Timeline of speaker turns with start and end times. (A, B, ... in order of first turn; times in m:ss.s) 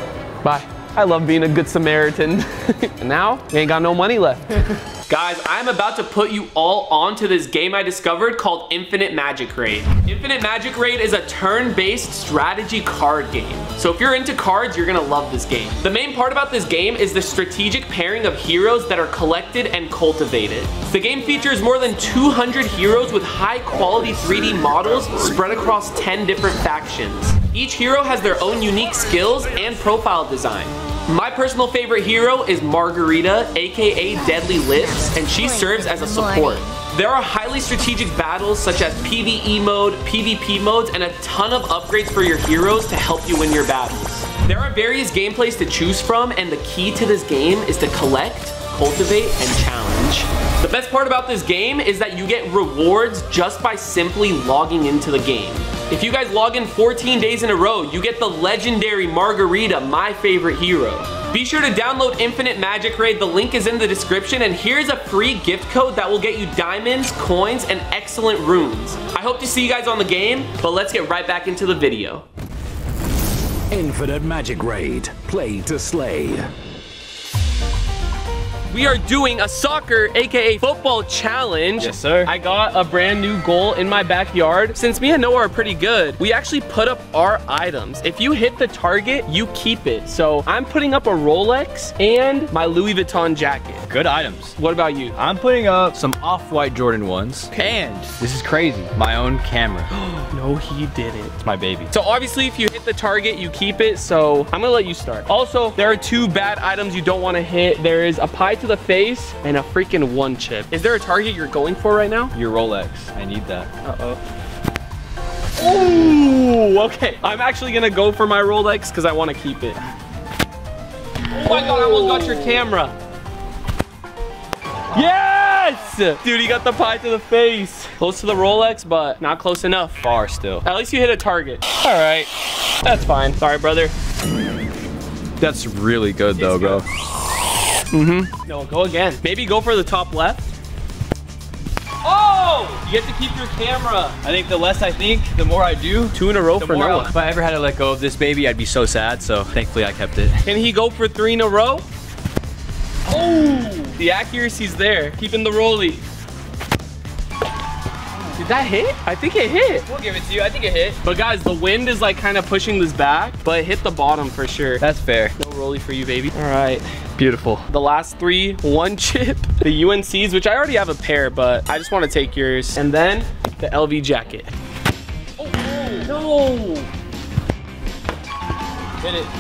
0:00.4-1:12.2 A
1:13.7-1:16.3 B
1:14.3-1:14.9 C
1:15.6-1:16.3 C
1:18.7-1:33.8 A
1:21.8-1:22.3 C
1:33.9-1:34.5 C
1:34.6-1:35.1 A
1:35.1-1:39.9 C
1:37.5-1:37.8 A
1:39.9-1:41.3 A
1:41.4-1:41.9 C
1:41.9-1:52.3 A
1:52.3-1:53.7 C
1:53.8-1:54.2 A
1:55.6-1:59.8 A
2:01.3-2:03.0 A
2:01.4-2:02.5 C
2:04.9-2:10.0 A
2:10.0-2:10.6 C
2:10.6-2:12.3 A
2:12.8-2:13.9 A
2:15.4-2:16.8 C
2:16.4-2:16.8 A
2:17.9-2:20.5 A
2:22.0-2:24.2 A
2:24.2-2:30.4 C
2:26.1-2:27.1 A
2:30.4-2:31.8 A
2:33.1-2:33.9 C
2:33.9-2:36.0 A
2:38.4-2:39.9 A
2:39.9-2:40.9 C
2:41.0-2:44.8 A
2:44.8-2:45.3 C
2:45.4-2:54.5 A
2:55.4-2:56.8 A
2:55.9-2:56.3 C
2:59.0-2:59.3 C